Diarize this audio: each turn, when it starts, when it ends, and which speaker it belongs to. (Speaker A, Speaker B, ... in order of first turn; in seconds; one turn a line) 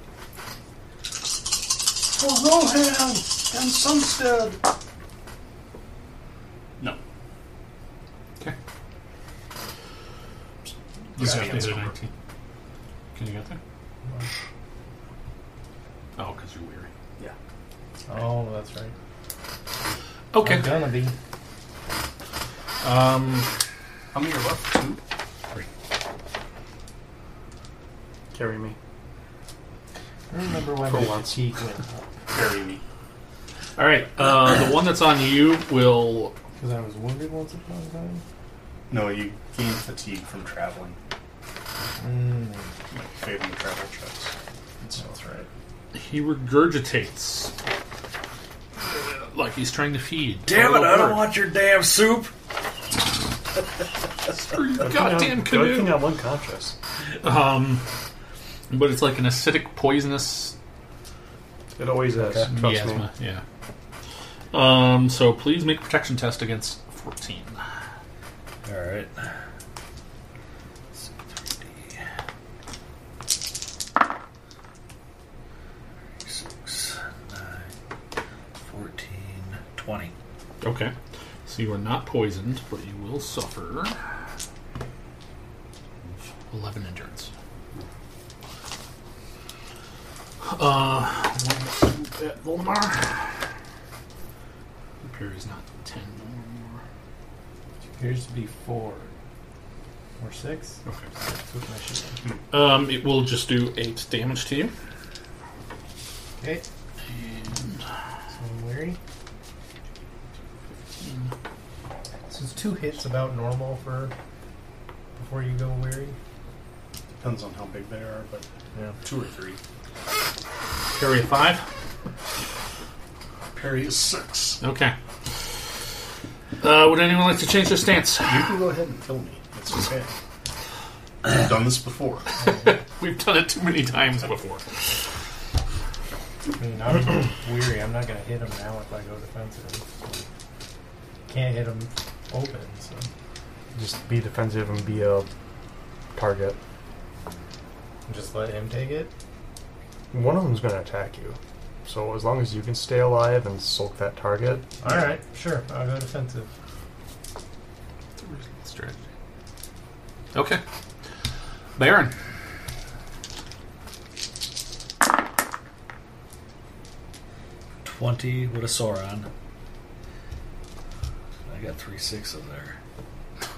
Speaker A: 2.1-4.6
Speaker A: 10.7-11.9
Speaker B: 11.2-12.1
Speaker B: 13.2-13.6
Speaker B: 16.2-16.9
Speaker C: 18.1-18.9
Speaker B: 20.3-20.8
Speaker C: 20.4-21.1
Speaker B: 22.8-23.5
Speaker A: 24.1-25.0
Speaker D: 28.3-28.8
Speaker C: 30.3-32.1
Speaker D: 30.9-31.3
Speaker A: 32.3-32.8
Speaker B: 33.8-36.4
Speaker C: 36.6-38.2
Speaker A: 38.9-41.0
Speaker C: 42.0-42.7
Speaker A: 42.9-45.4
Speaker C: 45.0-45.5
Speaker B: 45.9-47.5
Speaker B: 48.8-51.3
Speaker E: 50.5-52.3
Speaker B: 54.3-56.0
Speaker D: 54.8-56.8
Speaker B: 57.2-57.8
Speaker B: 58.7-60.5
Speaker D: 61.8-63.0
Speaker E: 62.2-62.5
Speaker B: 62.5-63.4
Speaker B: 64.5-67.6
Speaker E: 68.7-69.3
Speaker E: 71.0-72.0
Speaker E: 76.2-77.7
Speaker E: 78.6-80.1
Speaker B: 80.6-80.9
Speaker B: 81.5-84.0
Speaker B: 86.5-87.3
Speaker B: 90.4-93.3
Speaker B: 95.0-96.8
Speaker C: 98.0-99.1
Speaker C: 100.2-102.2
Speaker B: 102.5-104.7
Speaker C: 106.4-106.6
Speaker B: 107.1-107.8
Speaker C: 108.3-109.0
Speaker B: 111.0-111.3
Speaker C: 112.3-114.1
Speaker C: 115.2-116.2
Speaker A: 117.2-118.5
Speaker A: 119.0-119.6
Speaker B: 120.9-121.7
Speaker A: 123.5-124.6
Speaker B: 124.6-125.0
Speaker B: 126.6-128.4
Speaker A: 128.2-130.1
Speaker A: 131.2-132.3
Speaker C: 132.4-132.7
Speaker B: 132.4-135.0
Speaker C: 136.6-140.2
Speaker C: 141.3-143.1
Speaker D: 143.7-145.3
Speaker D: 146.2-146.6
Speaker C: 148.1-149.1
Speaker D: 150.1-154.7
Speaker C: 154.8-156.5
Speaker B: 158.2-159.0
Speaker B: 160.3-160.6
Speaker B: 161.8-162.1
Speaker E: 167.8-169.3
Speaker E: 171.5-172.8